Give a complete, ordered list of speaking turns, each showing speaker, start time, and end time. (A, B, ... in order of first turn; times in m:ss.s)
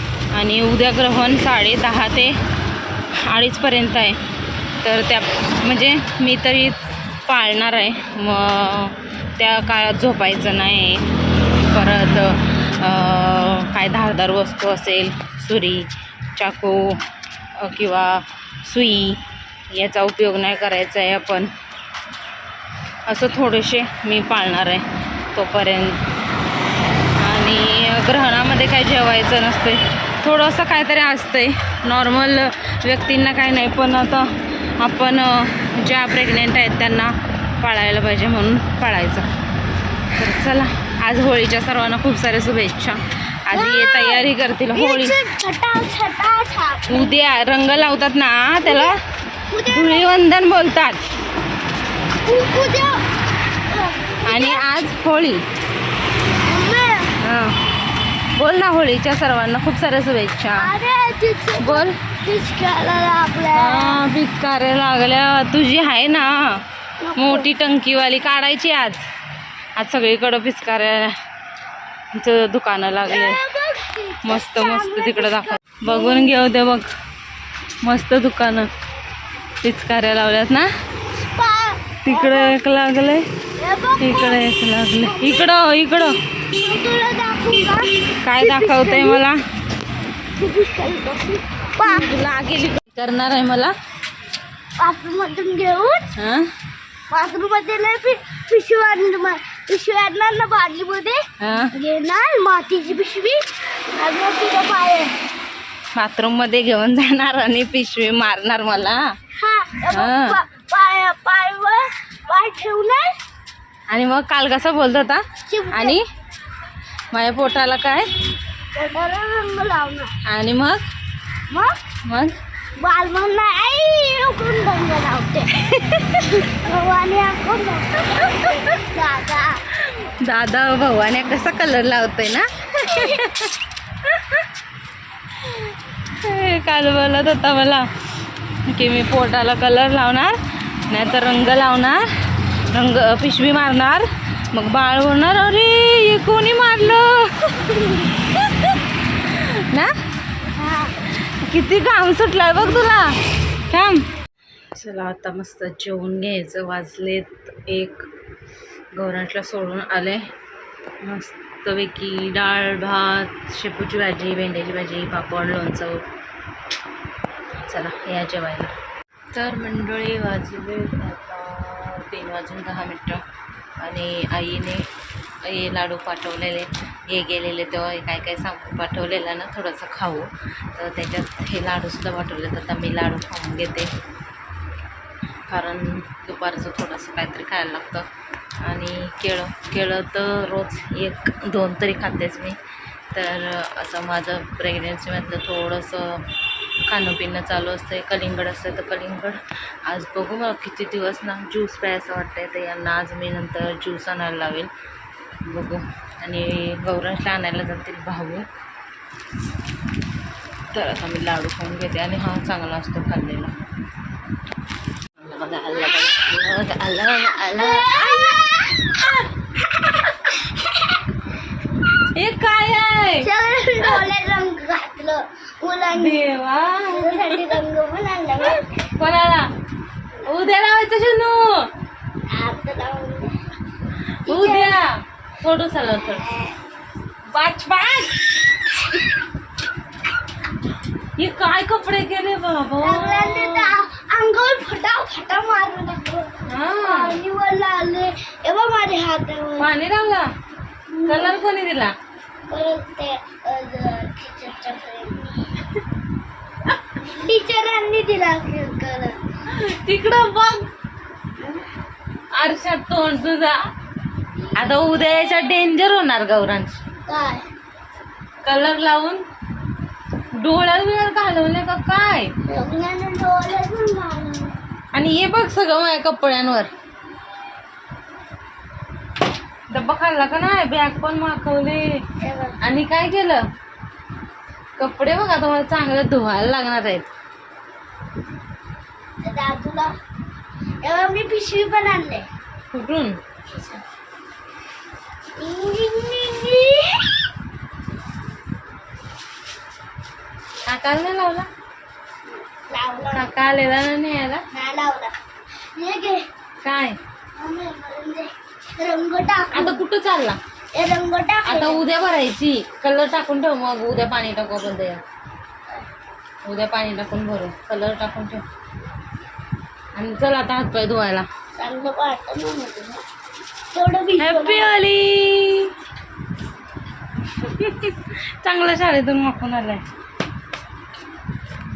0:00.3-0:02.4 A
0:03.2-0:04.2 A
0:04.8-0:17.0 A
0:17.6-0:21.5 A
0:23.1-0:26.0 A
0:27.2-0:39.3 A
0:40.2-0:45.2 A
0:43.5-0:47.2 B
0:46.9-0:49.0 A
0:48.6-0:49.0 B
0:49.5-0:50.2 B
0:49.7-0:51.0 A
0:52.3-0:53.0 B
0:53.7-0:54.6 B
0:54.2-0:55.4 A
0:56.4-0:57.1 B
0:57.2-0:57.5 A
0:58.3-1:00.7 A
1:00.6-1:04.0 B
1:01.6-1:02.0 A
1:03.5-1:06.6 A
1:07.0-1:07.5 B
1:07.2-1:09.0 A
1:09.8-1:11.1 A
1:12.2-1:13.4 A
1:13.1-1:16.4 B
1:14.2-1:16.9 A
1:17.8-1:18.7 A
1:19.6-1:20.7 A
1:21.2-1:22.6 B
1:22.0-1:23.2 A
1:23.6-1:24.4 B
1:24.0-1:26.2 A
1:25.0-1:25.5 B
1:26.5-1:29.2 B
1:28.2-1:29.4 A
1:30.4-1:32.1 B
1:31.8-1:33.7 A
1:34.8-1:36.1 B
1:36.2-1:36.5 A
1:37.1-1:41.2 B
1:41.4-1:41.7 A
1:41.8-1:43.4 B
1:44.0-1:45.1 B
1:46.0-1:49.0 A
1:49.4-1:53.1 B
1:49.9-1:50.4 A
1:53.9-1:56.0 A
1:55.5-1:56.0 B
1:57.1-1:58.1 A
1:58.8-2:00.1 B
2:00.3-2:00.8 A
2:01.5-2:01.8 B
2:02.0-2:02.4 A
2:02.8-2:05.5 B
2:05.6-2:06.3 A
2:06.3-2:09.6 B
2:08.2-2:08.7 A
2:09.8-2:13.5 A
2:12.9-2:13.2 B
2:14.1-2:14.4 A
2:15.4-2:15.7 A
2:16.2-2:17.9 A
2:18.7-2:22.1 A
2:22.7-2:29.9 A
2:31.1-2:33.2 A
2:33.7-2:34.1 A
2:34.8-2:38.1 A
2:38.9-2:40.3 A
2:41.0-2:46.0 A
2:47.7-2:48.8 A
2:49.3-2:53.2 A
2:53.8-2:54.8 A
2:55.4-3:03.9 A
3:05.5-3:08.1 A
3:08.6-3:12.6 A
3:13.1-3:16.2 A
3:16.9-3:24.7 A
3:25.4-3:28.5 A
3:30.7-3:33.6 A
3:35.2-3:39.3 A
3:37.5-3:38.8 B
3:39.8-3:40.3 A
3:41.9-3:43.3 A
3:43.2-3:46.3 B
3:45.9-3:47.6 A
3:46.9-3:48.6 B
3:48.4-3:49.5 A
3:50.2-3:51.7 A
3:52.3-3:53.4 B
3:54.3-3:56.4 A
3:54.3-3:54.8 B
3:56.1-3:56.5 B
3:57.3-3:58.2 A
4:01.2-4:03.8 A
4:02.8-4:09.7 B
4:06.5-4:07.2 A
4:09.6-4:10.3 A
4:10.9-4:11.4 B
4:11.1-4:11.9 A
4:12.5-4:15.4 B
4:17.0-4:19.2 B
4:19.5-4:20.7 A
4:22.3-4:23.6 A
4:24.6-4:26.8 A
4:27.1-4:27.4 B
4:28.4-4:29.2 A
4:30.4-4:32.3 A
4:32.5-4:34.6 B
4:34.9-4:36.7 A
4:39.7-4:42.0 A
4:42.2-4:42.6 B
4:42.6-4:43.4 A
4:44.8-4:47.1 A
4:49.2-4:49.9 B
4:50.8-4:52.3 B
4:52.7-4:53.2 A
4:53.5-4:53.8 B
4:55.4-4:57.2 B
5:00.7-5:01.5 A
5:02.3-5:03.3 B
5:03.1-5:04.4 A
5:04.5-5:05.1 B
5:05.8-5:06.3 B
5:06.6-5:07.0 A
5:07.4-5:09.8 B
5:09.5-5:10.4 A
5:10.8-5:11.8 B
5:11.4-5:15.0 A
5:16.4-5:18.4 A
5:20.0-5:21.3 A
5:21.6-5:23.0 B
5:23.7-5:24.7 B
5:24.2-5:25.7 A
5:27.3-5:29.8 A